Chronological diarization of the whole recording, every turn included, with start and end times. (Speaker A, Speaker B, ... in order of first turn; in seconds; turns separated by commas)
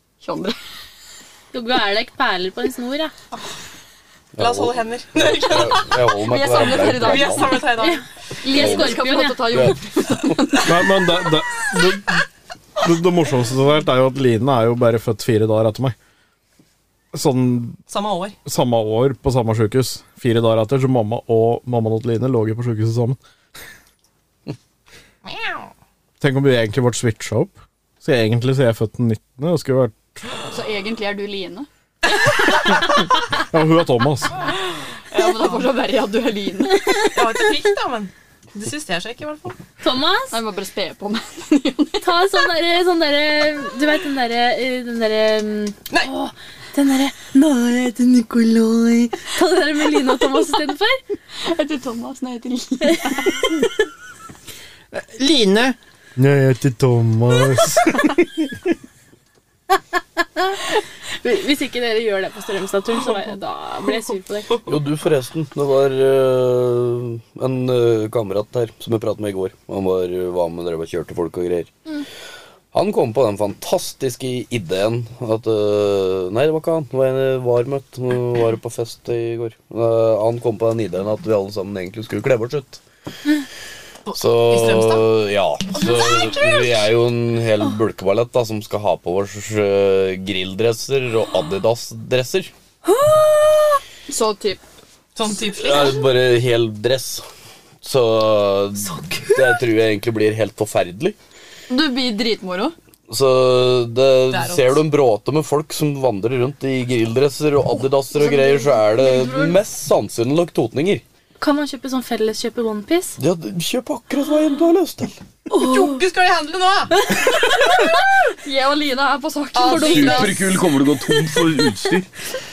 Speaker A: 0.2-0.6, Speaker B: 1.5-3.1, Speaker C: 4.4-7.6, Speaker D: 4.4-6.0, Speaker A: 6.2-7.8, Speaker D: 7.0-8.0, Speaker B: 7.8-9.8, Speaker A: 8.4-11.1, Speaker C: 8.5-9.8, Speaker E: 10.7-12.2, Speaker E: 12.8-15.9, Speaker E: 17.1-17.8, Speaker D: 17.9-18.4, Speaker E: 18.4-23.2, Speaker E: 26.2-30.2, Speaker A: 30.5-31.7, Speaker E: 33.3-34.4, Speaker A: 35.1-36.9, Speaker D: 37.1-39.6, Speaker B: 39.8-40.4, Speaker A: 40.3-42.2, Speaker B: 42.0-51.0, Speaker A: 51.4-53.5, Speaker E: 54.9-58.7, Speaker B: 61.2-64.7, Speaker C: 64.7-71.7, Speaker C: 72.7-82.8, Speaker D: 84.1-85.1, Speaker C: 84.1-92.5, Speaker D: 85.7-86.7, Speaker A: 92.9-94.6, Speaker D: 95.2-96.0, Speaker C: 95.5-97.2, Speaker C: 97.8-101.2, Speaker A: 101.7-102.7, Speaker C: 103.1-111.0, Speaker D: 104.3-104.8, Speaker A: 108.2-109.6, Speaker B: 111.4-113.2, Speaker C: 113.2-115.2, Speaker D: 115.5-117.0, Speaker A: 117.5-120.5, Speaker D: 119.5-120.3, Speaker B: 119.6-120.4, Speaker C: 119.7-122.1